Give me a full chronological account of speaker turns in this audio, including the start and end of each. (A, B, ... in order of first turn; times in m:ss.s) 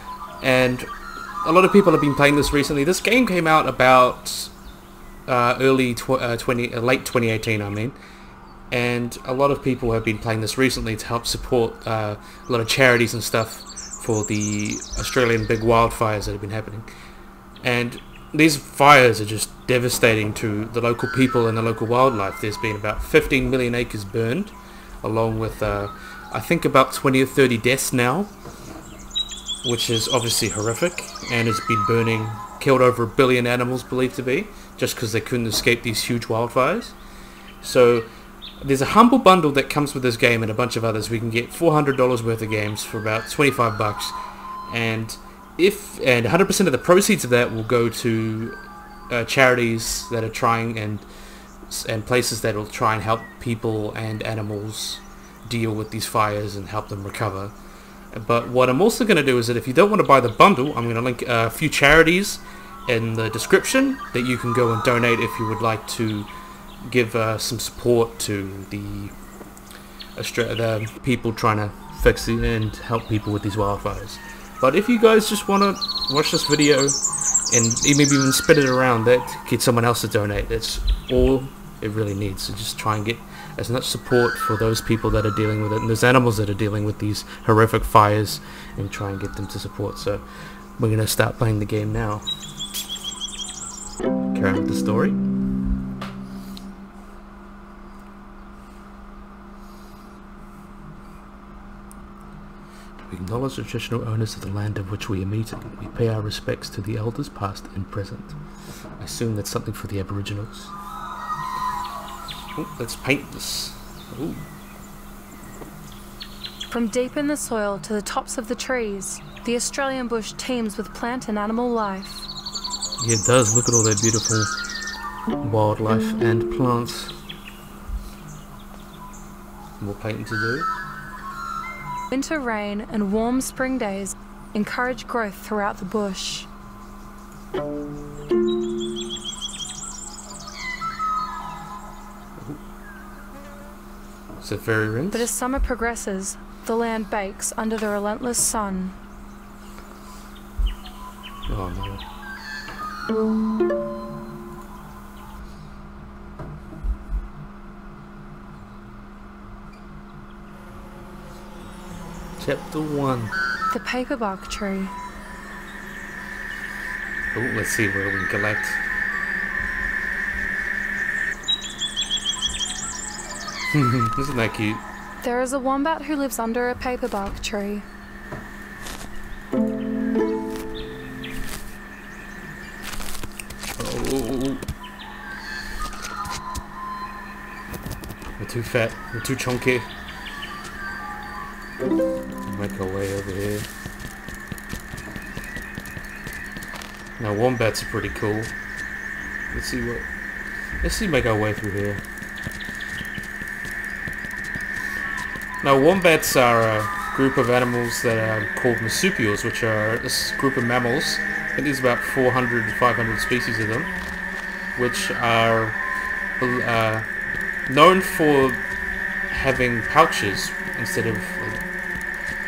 0:00.4-0:00.9 A
0:01.4-0:04.5 A
0:05.3-0:08.0 A
0:08.7-0:16.9 A
0:17.6-0:28.3 A
0:29.6-0:37.0 A
0:37.6-0:38.1 A
0:38.6-0:44.2 A
0:44.7-0:48.6 A
0:49.1-0:51.0 A
0:51.7-0:57.5 A
0:58.1-1:06.3 A
1:06.8-1:09.2 A
1:10.2-1:17.0 A
1:17.5-1:30.2 A
1:30.8-1:32.2 A
1:34.3-1:35.2 A
1:43.0-1:48.4 A
1:49.0-1:50.7 A
1:52.6-1:54.4 A
1:56.7-2:02.3 B
2:03.0-2:04.5 A
2:05.4-2:07.2 A
2:09.8-2:10.7 A
2:12.1-2:16.5 B
2:24.4-2:25.3 A
2:25.1-2:29.0 B
2:31.5-2:32.0 A
2:42.4-2:43.3 A
2:43.7-2:44.9 B
2:47.3-2:48.8 A
2:53.7-2:54.8 A
2:55.2-2:57.8 B
3:03.8-3:04.6 A
3:08.4-3:09.9 A
3:12.4-3:13.7 A
3:17.2-3:18.5 A
3:19.5-3:20.0 A
3:20.8-3:22.0 A
3:25.6-3:33.9 A
3:34.8-3:35.8 A
3:36.4-3:37.1 A
3:37.7-3:38.6 A
3:39.3-3:41.6 A